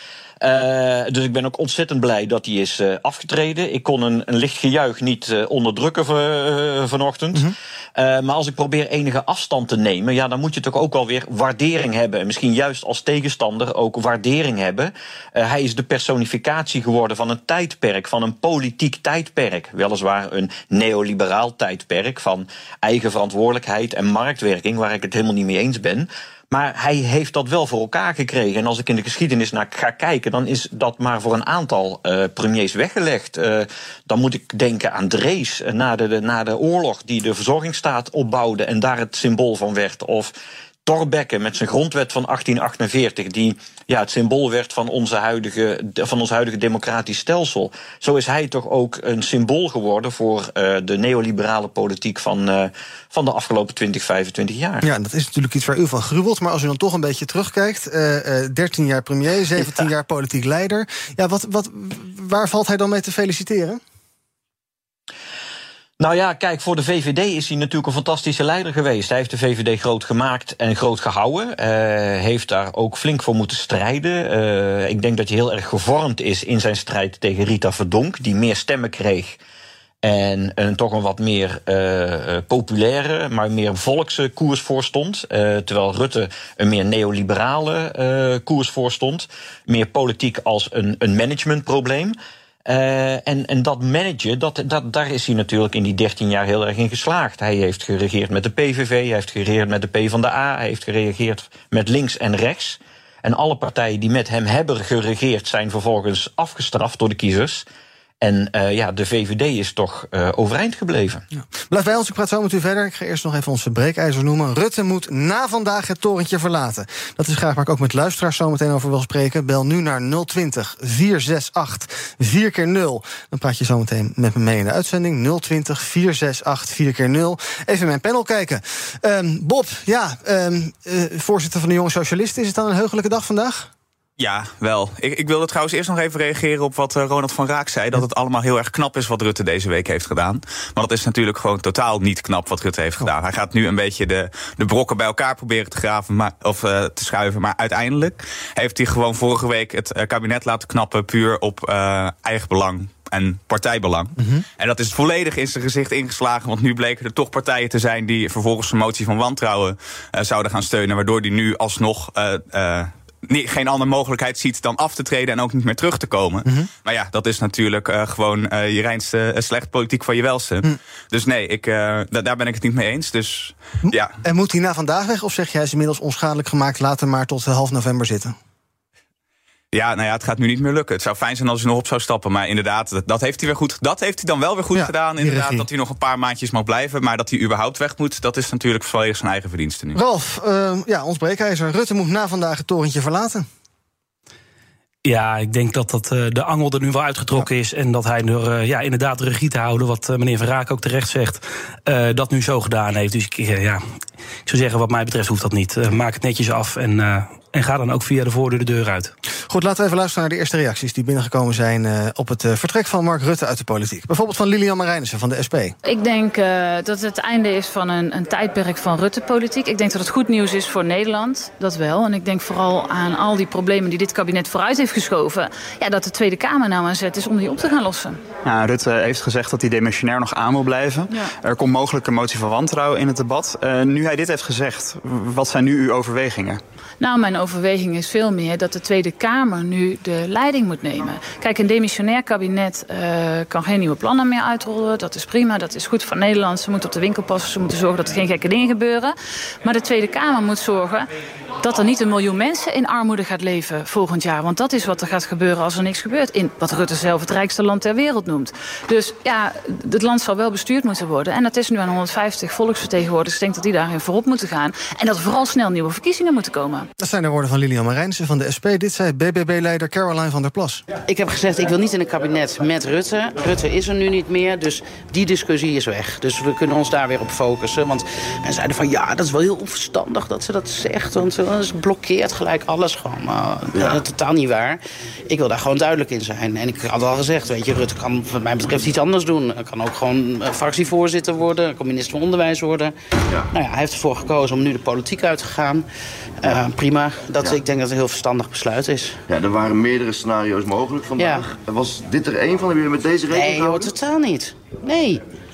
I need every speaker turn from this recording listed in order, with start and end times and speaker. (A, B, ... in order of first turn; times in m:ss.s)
0:00.4-0:40.3 A
0:40.8-0:54.9 A
0:54.8-1:03.8 B
1:06.0-1:19.4 A
1:20.0-1:47.6 A
1:48.2-1:51.2 A
1:51.4-2:13.7 B
2:14.2-2:54.2 C
2:34.2-2:34.4 B
2:53.8-2:58.4 B
2:59.7-3:10.0 C
3:04.7-3:05.6 B
3:10.0-3:13.5 B
3:15.0-3:23.8 D
3:24.4-3:29.1 D
3:29.5-3:35.7 B
3:35.8-3:48.2 E
3:48.4-3:56.6 F
3:57.0-4:11.1 E
4:11.6-4:26.9 E
4:27.0-4:30.8 B
4:31.0-4:52.9 G
4:43.7-4:44.0 H
4:53.5-4:55.8 G
4:56.4-4:59.2 G
4:59.3-5:03.9 H
5:01.2-5:01.5 G
5:03.3-5:05.2 G